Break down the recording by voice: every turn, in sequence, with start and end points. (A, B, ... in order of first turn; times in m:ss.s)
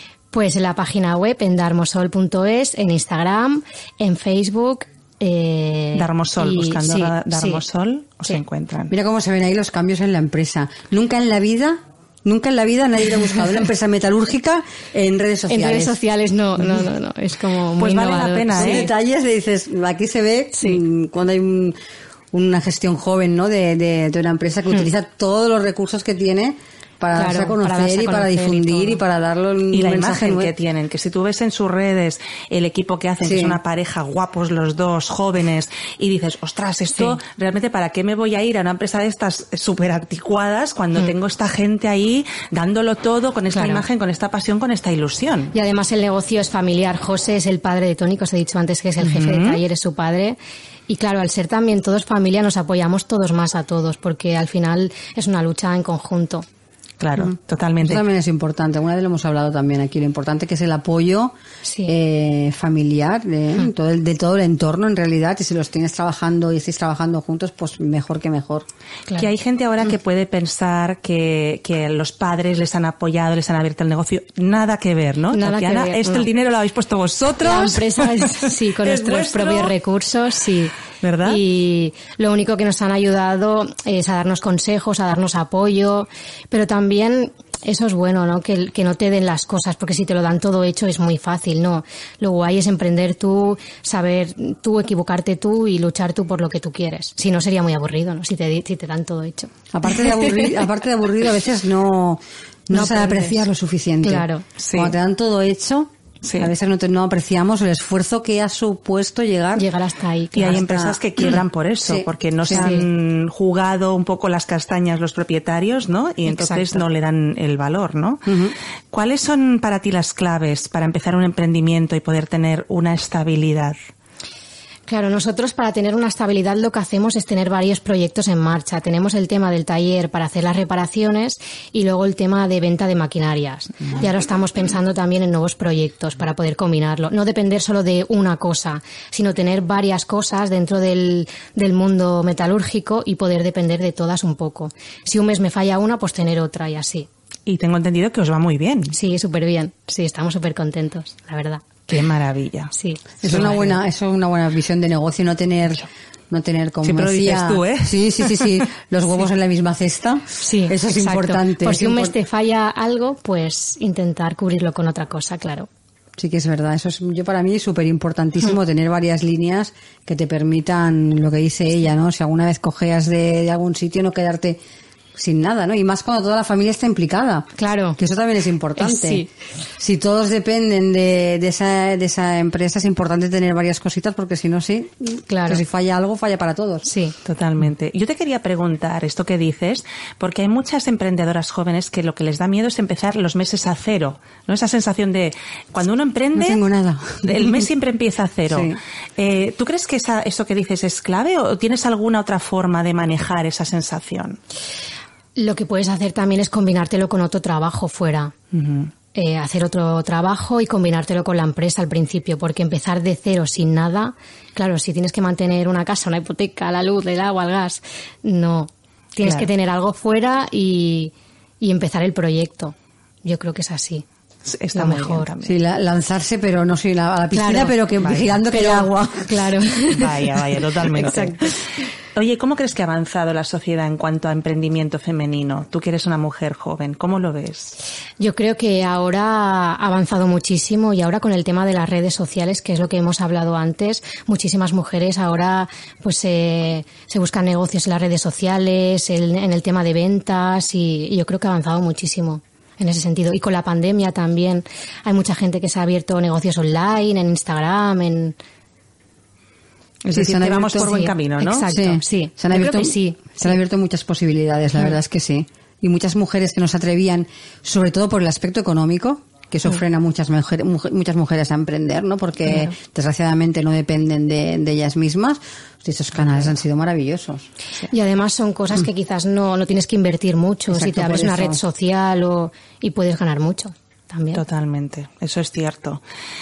0:00.3-0:07.6 A
0:05.9-0:08.9 B
0:08.9-0:16.0 C
0:15.5-0:18.9 A
0:17.8-0:18.9 B
0:18.6-0:21.8 C
0:22.3-0:30.5 C
0:27.1-0:29.0 A
0:29.7-0:45.5 B
0:33.2-0:33.6 C
0:43.5-0:43.8 A
0:45.5-0:50.4 A
0:49.0-0:49.6 B
0:50.9-0:56.4 A
0:57.0-0:58.0 B
0:57.2-1:01.3 C
1:01.6-1:01.9 A
1:01.9-1:08.6 C
1:09.1-1:19.7 B
1:15.3-1:16.3 A
1:17.4-1:39.5 A
1:21.0-1:21.4 B
1:39.7-1:49.6 C
1:42.7-1:43.4 A
1:44.0-1:44.4 A
1:44.6-1:44.9 B
1:46.2-1:46.5 B
1:49.6-1:50.6 A
1:50.4-1:58.2 B
1:50.4-1:51.0 C
1:51.8-1:52.7 C
1:52.6-1:52.9 A
1:56.2-1:56.8 A
1:58.2-1:58.5 C
1:58.9-2:03.8 B
2:04.9-2:27.1 A
2:27.5-2:28.9 B
2:28.9-2:31.6 A
2:31.9-2:32.7 B
2:32.7-2:33.6 A
2:33.2-2:42.1 C
2:33.2-2:33.7 B
2:36.8-2:38.6 B
2:40.4-2:45.7 A
2:46.2-2:54.6 C
2:55.2-2:59.2 C
2:57.6-2:58.0 A
2:58.8-2:59.3 A
2:59.8-3:06.8 C
3:05.3-3:05.6 A
3:06.8-3:07.2 A
3:07.2-3:16.6 B
3:16.3-3:17.6 C
3:17.2-3:24.4 B
3:18.5-3:18.8 C
3:25.4-3:28.3 A
3:28.5-3:28.9 B
3:29.1-3:44.0 A
3:39.2-3:39.5 B
3:44.4-3:45.6 B
3:44.7-3:45.3 A
3:45.4-3:49.5 C
3:47.3-3:47.8 A
3:48.0-3:48.3 B
3:48.5-3:50.3 A
3:49.9-3:57.8 B
3:51.0-3:51.6 A
3:58.2-4:18.4 A
4:20.0-4:21.7 B
4:20.1-4:21.0 C
4:20.8-4:23.6 A
4:21.7-4:37.5 C
4:37.9-4:44.4 A
4:40.7-4:41.6 C
4:44.3-4:46.0 B